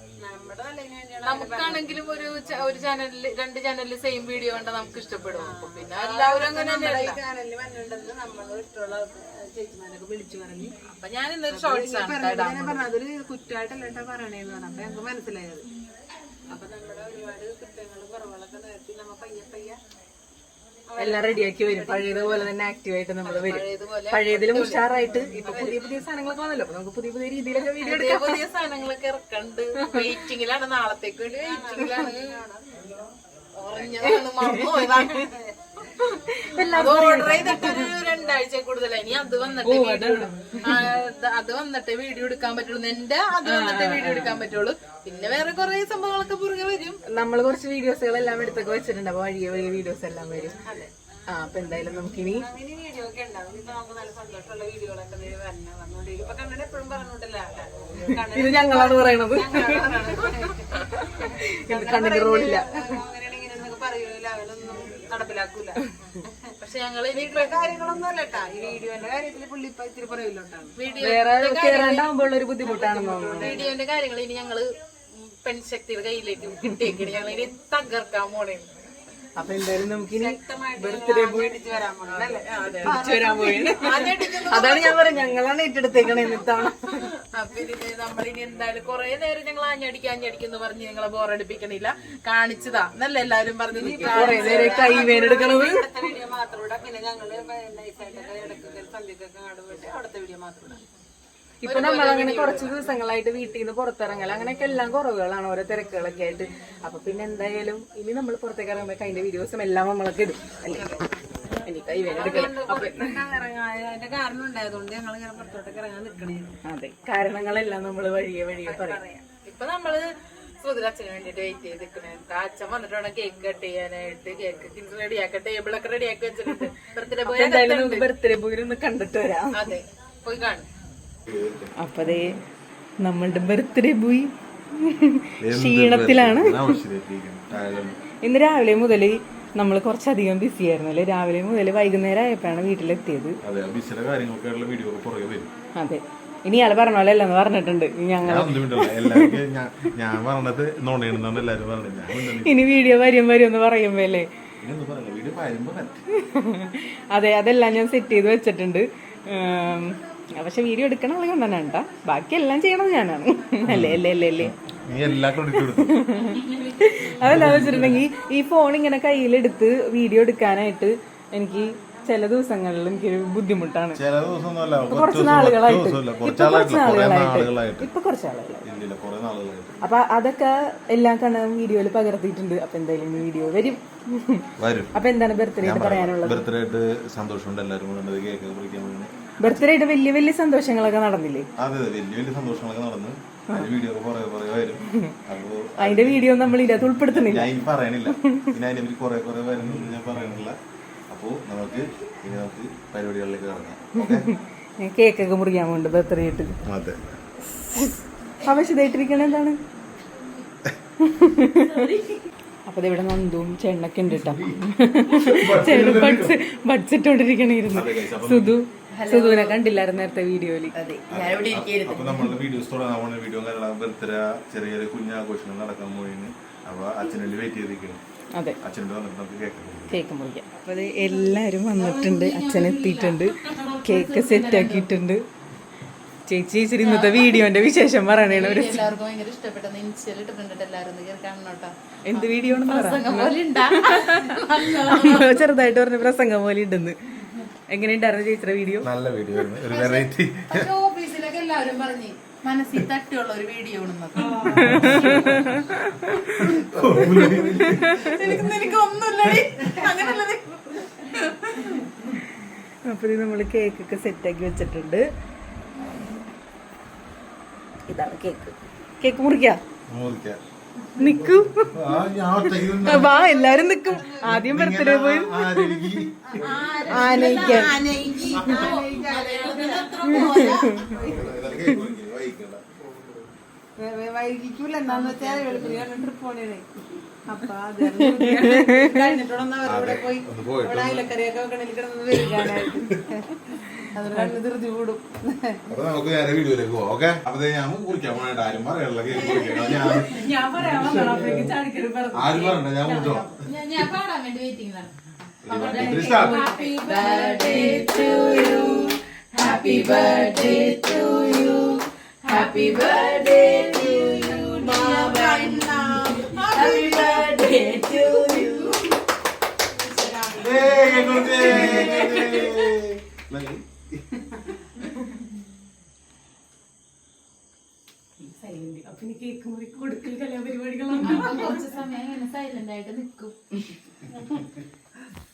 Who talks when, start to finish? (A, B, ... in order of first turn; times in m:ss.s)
0:00.2-0:02.0 A
0:01.2-0:07.2 B
0:05.4-0:10.7 A
0:10.8-0:12.9 B
0:11.5-0:15.7 A
0:16.5-0:19.8 A
0:20.9-0:22.5 A
0:21.0-0:28.4 C
0:23.2-0:24.9 B
0:25.4-0:25.9 A
0:27.8-0:32.4 B
0:29.8-0:30.1 C
0:31.3-0:33.1 A
0:33.6-0:35.3 B
0:34.0-0:35.1 C
0:35.2-0:36.0 A
0:36.3-0:37.9 C
0:36.7-0:47.0 B
0:39.6-0:40.8 C
0:43.4-0:44.5 C
0:47.1-0:50.6 C
0:50.6-0:50.9 A
0:51.3-0:52.5 C
0:51.9-1:06.5 A
0:58.2-1:00.3 C
1:01.0-1:02.7 C
1:06.6-1:07.7 B
1:07.1-1:10.8 A
1:10.8-1:12.1 B
1:11.0-1:13.6 C
1:12.6-1:13.8 A
1:13.4-1:18.7 B
1:16.8-1:17.0 C
1:19.4-1:22.2 C
1:20.1-1:24.1 A
1:22.3-1:23.0 B
1:22.8-1:27.1 C
1:23.7-1:25.0 B
1:27.2-1:35.3 B
1:33.7-1:40.8 A
1:33.8-1:35.9 C
1:41.6-1:50.9 C
1:41.6-1:42.8 B
1:50.7-1:51.1 A
1:51.6-1:53.2 C
1:52.0-1:56.5 A
1:52.2-1:52.9 B
1:56.7-1:59.0 C
1:58.7-1:59.2 A
1:59.4-2:00.1 B
2:00.6-2:08.1 B
2:07.2-2:09.7 C
2:09.5-2:10.7 B
2:11.3-2:11.7 D
2:11.8-2:12.4 C
2:13.0-2:16.8 C
2:15.4-2:18.0 D
2:18.2-2:23.4 C
2:23.4-2:25.5 D
2:25.8-2:29.4 C
2:28.2-2:32.6 D
2:32.2-2:34.3 C
2:34.6-2:36.0 D
2:36.1-2:44.6 C
2:43.6-2:46.0 D
2:45.6-2:54.0 C
2:46.1-2:47.9 B
2:47.2-2:48.0 D
2:53.9-2:57.9 D
2:54.9-2:58.7 C
2:58.6-2:59.8 D
2:59.8-3:06.5 C
3:04.6-3:04.9 D
3:05.6-3:09.7 D
3:09.4-3:11.5 C
3:11.6-3:20.6 D
3:15.8-3:17.5 C
3:18.1-3:18.5 C
3:21.1-3:24.3 D
3:24.0-3:26.6 C
3:26.7-3:27.0 D
3:28.5-3:29.6 C
3:31.0-3:31.8 C
3:31.6-3:32.2 B
3:32.7-3:40.7 C
3:34.1-3:36.4 D
3:37.7-3:38.6 D
3:38.9-3:39.6 B
3:40.8-3:42.3 B
3:41.1-3:48.0 D
3:48.6-3:50.0 D
3:49.9-3:55.2 C
3:51.1-3:54.9 B
3:56.3-3:58.8 C
3:56.8-4:05.5 B
4:02.1-4:08.9 C
4:08.8-4:10.7 D
4:09.6-4:15.3 B
4:14.2-4:15.2 A
4:14.4-4:18.1 C
4:14.6-4:15.5 D
4:16.2-4:18.5 D
4:17.9-4:21.8 B
4:19.2-4:19.5 D
4:22.9-4:25.0 C
4:27.9-4:29.6 C
4:29.9-4:30.4 D
4:31.0-4:31.8 C
4:31.7-4:33.2 D
4:32.7-4:36.0 C
4:32.9-4:34.3 A
4:34.2-4:36.7 D
4:36.2-4:41.7 A
4:36.4-4:41.1 B
4:36.9-4:37.8 C
4:40.1-4:40.8 C
4:41.0-4:43.0 D
4:43.8-4:46.7 A
4:44.9-4:45.7 C
4:47.3-4:55.6 A
4:48.0-4:49.0 C
4:49.6-4:51.1 D
4:52.2-4:52.9 D
4:55.7-5:01.5 D
4:59.2-5:03.4 C
4:59.3-5:00.1 B
5:02.1-5:03.5 D
5:03.4-5:04.9 B
5:05.4-5:06.4 D
5:05.5-5:18.8 B
5:05.5-5:08.3 C
5:09.4-5:10.5 C
5:14.5-5:15.9 A
5:16.4-5:17.2 A
5:18.1-5:18.6 C
5:19.8-5:22.6 B
5:20.4-5:24.0 D
5:20.9-5:22.0 A
5:28.2-5:31.6 C
5:31.0-5:33.7 B